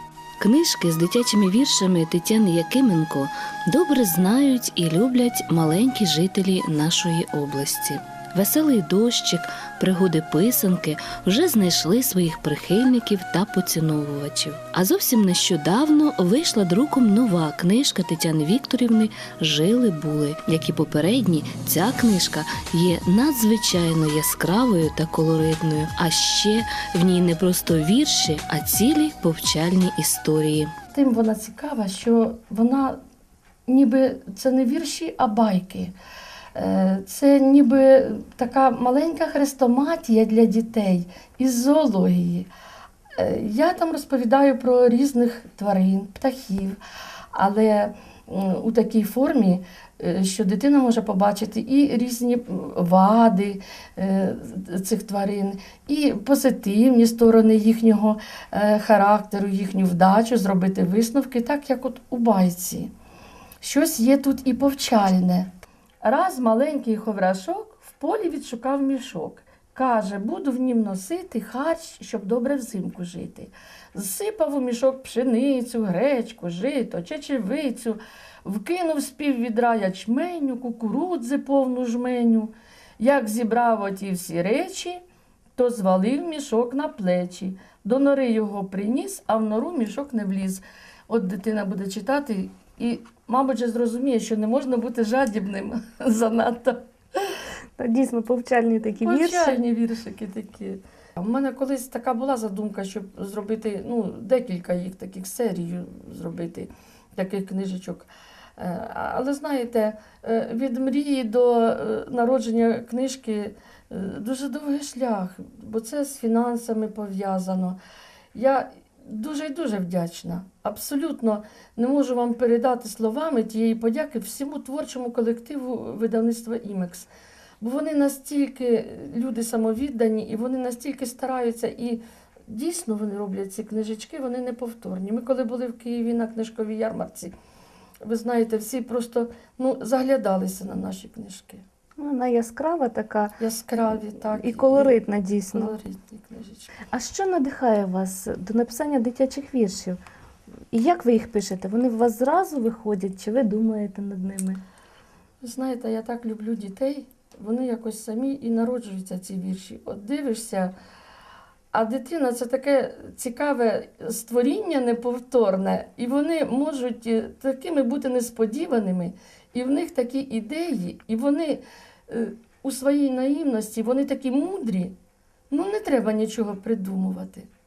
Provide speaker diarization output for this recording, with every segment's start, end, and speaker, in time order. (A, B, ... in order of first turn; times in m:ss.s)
0:00.4-0:30.7 A
0:30.9-0:33.0 B
0:33.7-0:35.9 B
0:36.6-0:42.5 B
0:43.2-0:46.8 B
0:47.3-1:02.9 B
1:03.6-1:05.5 B
1:06.0-1:25.0 B
1:25.6-1:36.8 B
1:37.8-1:39.6 C
1:39.0-1:48.1 B
1:48.6-1:57.8 B
1:58.3-2:07.1 B
2:07.6-2:17.3 B
2:18.0-2:21.6 B
2:22.0-2:23.4 C
2:23.4-2:26.7 B
2:24.4-2:25.8 C
2:26.9-2:30.0 C
2:30.7-2:34.6 C
2:35.4-2:40.7 B
2:41.7-2:55.0 B
2:55.5-2:57.5 B